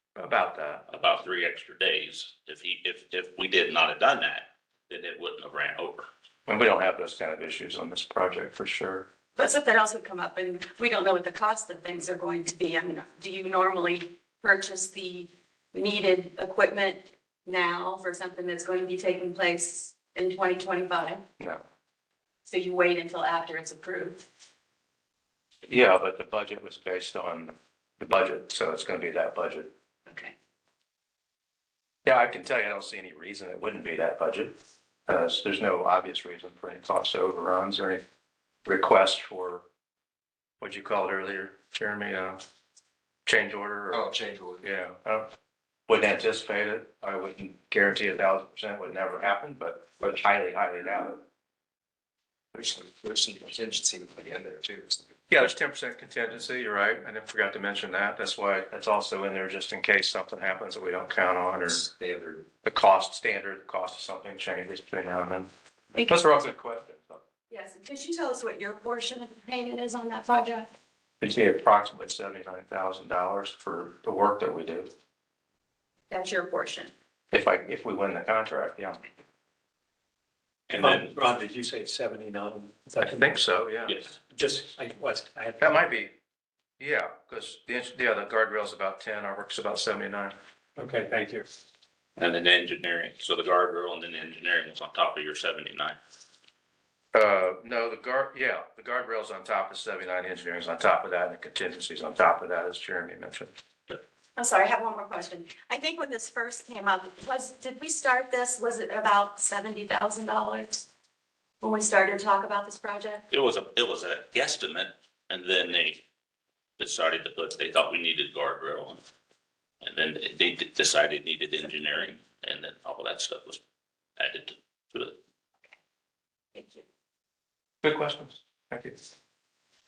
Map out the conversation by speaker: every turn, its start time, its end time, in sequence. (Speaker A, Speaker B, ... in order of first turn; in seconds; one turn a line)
Speaker A: 0.2-0.9
Speaker B: 0.9-6.1
Speaker A: 6.5-9.1
Speaker C: 9.4-21.2
Speaker C: 22.5-24.3
Speaker A: 25.7-29.7
Speaker C: 30.1-30.3
Speaker A: 32.0-34.5
Speaker A: 35.1-38.0
Speaker A: 38.7-39.6
Speaker A: 40.6-42.4
Speaker A: 43.3-44.1
Speaker D: 43.9-44.6
Speaker A: 44.6-45.3
Speaker A: 45.9-51.2
Speaker D: 52.5-55.1
Speaker A: 55.3-61.9
Speaker D: 61.7-62.5
Speaker A: 62.6-67.2
Speaker C: 67.5-70.7
Speaker A: 71.2-74.9
Speaker C: 76.1-76.9
Speaker A: 77.3-79.0
Speaker E: 80.8-83.1
Speaker A: 83.0-84.0
Speaker E: 84.4-85.6
Speaker A: 85.6-86.1
Speaker A: 86.8-90.3
Speaker E: 90.8-91.4
Speaker B: 92.2-96.0
Speaker A: 97.1-103.5
Speaker C: 104.4-110.9
Speaker C: 111.6-113.2
Speaker B: 113.3-116.0
Speaker B: 116.8-119.0
Speaker B: 119.8-123.6
Speaker B: 124.2-125.2
Speaker C: 126.5-126.8
Speaker A: 127.8-129.0